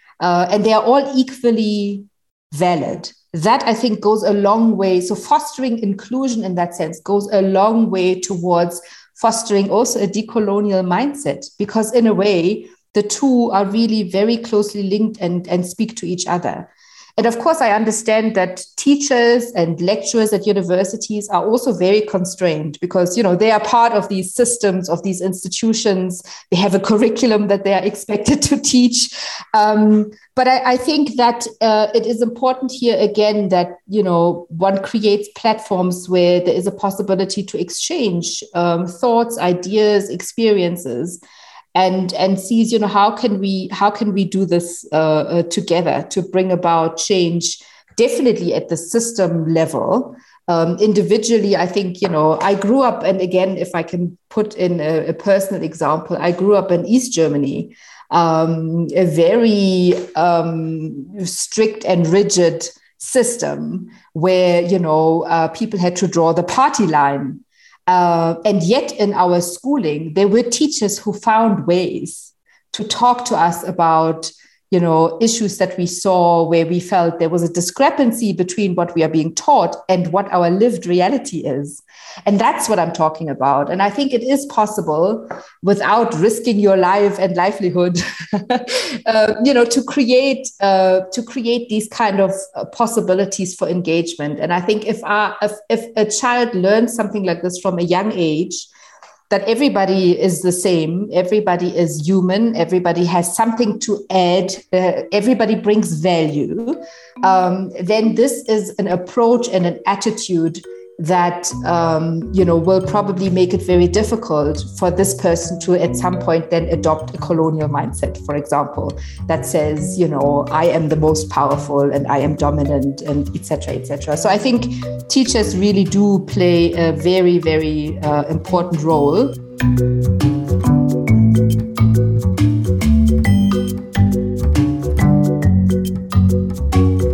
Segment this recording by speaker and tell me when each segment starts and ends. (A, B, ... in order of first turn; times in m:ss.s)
0:00.2-0:41.2 A
0:41.7-1:38.7 A
1:39.3-2:09.4 A